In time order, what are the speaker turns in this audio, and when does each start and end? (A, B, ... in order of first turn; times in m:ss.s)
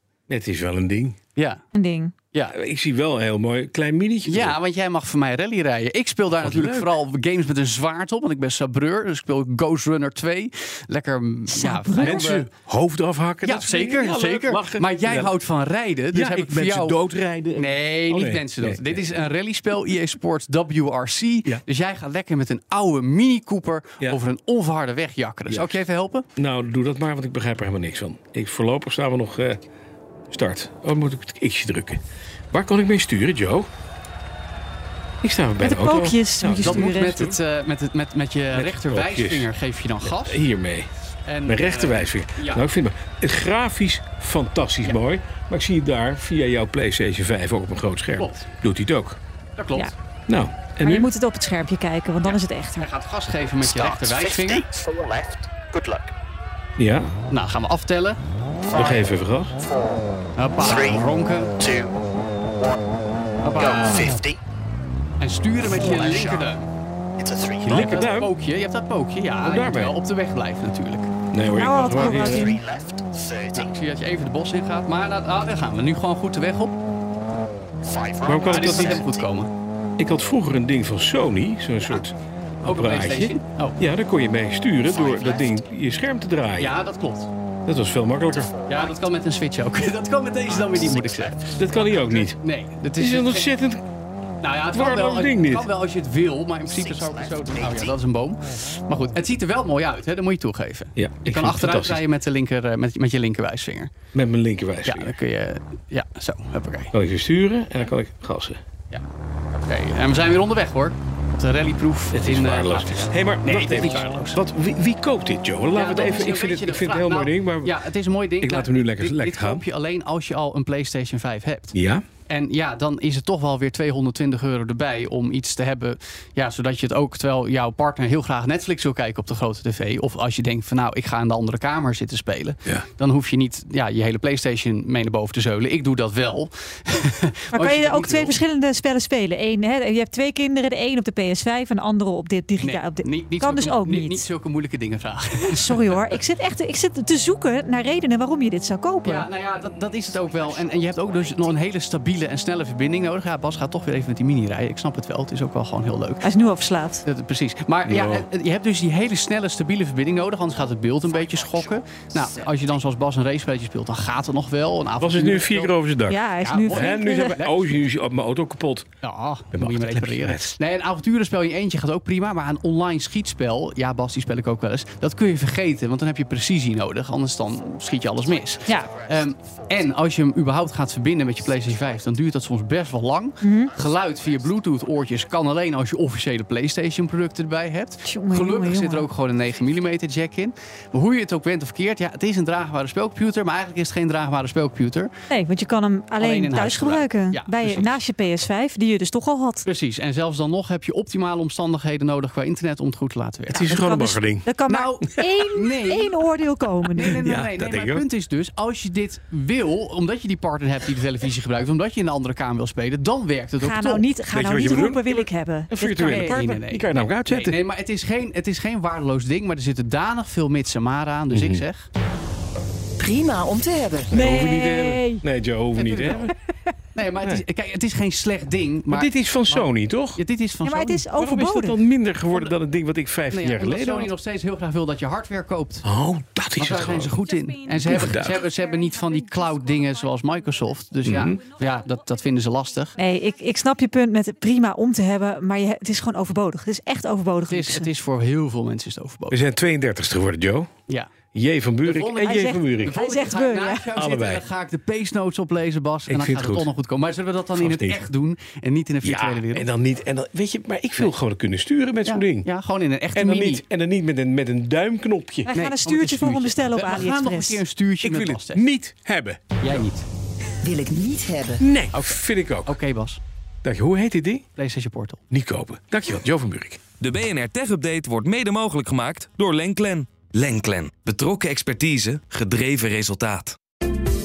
0:00.3-0:01.2 A
0:01.4-0:01.6 B
0:01.7-0:02.1 C
0:02.4-0:04.6 A
0:04.2-0:12.5 B
0:06.4-0:06.9 A
0:11.5-0:12.2 C
0:12.0-0:15.3 A
0:13.4-0:17.0 B
0:16.1-0:19.0 A
0:17.6-0:26.3 B
0:25.5-0:25.8 A
0:26.4-0:29.6 A
0:30.3-0:33.7 A
0:35.2-0:37.4 A
0:35.6-0:37.2 C
0:36.6-0:40.4 B
0:38.5-0:39.5 A
0:40.0-0:40.9 A
0:41.2-0:42.6 B
0:41.4-0:49.2 A
0:48.2-0:48.5 B
0:49.6-0:49.9 B
0:50.3-0:51.1 A
0:50.8-0:52.9 C
0:52.2-0:54.7 B
0:54.4-0:56.1 D
0:56.8-0:57.1 A
0:57.3-0:58.2 B
0:58.7-0:59.6 A
1:00.4-1:01.5 B
1:01.6-1:01.9 D
1:03.4-1:04.0 B
1:03.7-1:04.2 A
1:03.7-1:04.3 D
1:05.2-1:06.6 B
1:07.2-1:07.6 D
1:07.6-1:08.3 A
1:07.6-1:11.1 B
1:09.4-1:10.0 A
1:11.3-1:12.6 A
1:11.5-1:12.6 C
1:12.4-1:13.0 D
1:13.5-1:16.7 B
1:18.0-1:18.4 D
1:18.2-1:19.0 A
1:18.4-1:19.5 B
1:20.0-1:26.7 A
1:22.6-1:23.8 B
1:26.6-1:27.3 B
1:27.6-1:28.5 A
1:28.7-1:31.6 B
1:31.5-1:32.4 A
1:32.1-1:33.5 B
1:33.0-1:33.8 A
1:34.4-1:43.9 B
1:34.7-1:35.7 A
1:41.0-1:42.0 A
1:44.1-1:45.2 A
1:44.8-1:46.9 B
1:46.9-1:48.6 A
1:49.6-1:54.4 B
1:52.1-1:57.8 A
1:55.7-2:01.8 B
1:58.4-1:59.6 A
2:01.7-2:02.0 A
2:02.3-2:18.4 B
2:17.5-2:24.2 C
2:22.6-2:25.8 B
2:25.4-2:29.3 C
2:29.0-2:36.3 B
2:36.2-2:37.0 C
2:37.0-2:45.7 B
2:37.9-2:38.2 A
2:45.0-2:48.8 A
2:46.1-2:47.4 C
2:46.4-2:47.6 B
2:49.0-3:15.1 B
2:49.5-2:50.5 A
2:58.6-2:58.9 C
3:03.4-3:03.7 C
3:08.0-3:09.1 C
3:15.3-3:19.6 C
3:16.2-3:17.9 B
3:19.6-3:23.7 B
3:23.5-3:24.5 A
3:23.6-3:27.2 C
3:24.7-3:26.2 B
3:26.9-3:34.1 B
3:27.0-3:28.0 A
3:33.6-3:36.4 C
3:34.3-3:37.6 A
3:36.0-3:41.9 B
3:41.3-3:41.6 A
3:43.0-3:44.1 E
3:44.1-3:45.2 C
3:44.1-3:46.3 A
3:45.8-3:46.3 B
3:46.9-3:51.0 B
3:48.9-3:50.2 A
3:50.6-3:51.8 C
3:51.2-3:54.1 A
3:53.3-3:55.8 B
3:55.8-3:57.2 A
3:56.6-4:03.0 B
3:57.8-3:58.4 A
4:01.0-4:01.4 A
4:03.0-4:07.9 C
4:07.5-4:09.4 B
4:09.3-4:10.7 A
4:11.3-4:13.0 A
4:11.8-4:19.7 B
4:12.2-4:13.8 C
4:14.0-4:14.4 A
4:16.1-4:16.7 A
4:17.6-4:18.0 A
4:19.0-4:22.5 A
4:22.0-4:23.6 B
4:23.1-4:25.5 A
4:25.4-4:27.6 C
4:25.5-4:28.6 B
4:28.0-4:29.9 A
4:29.6-4:30.0 B
4:30.6-4:31.6 E
4:31.6-4:32.8 A
4:31.9-4:33.2 B
4:33.6-4:34.4 A
4:34.6-4:35.2 B
4:35.3-4:36.8 A
4:37.0-4:43.6 F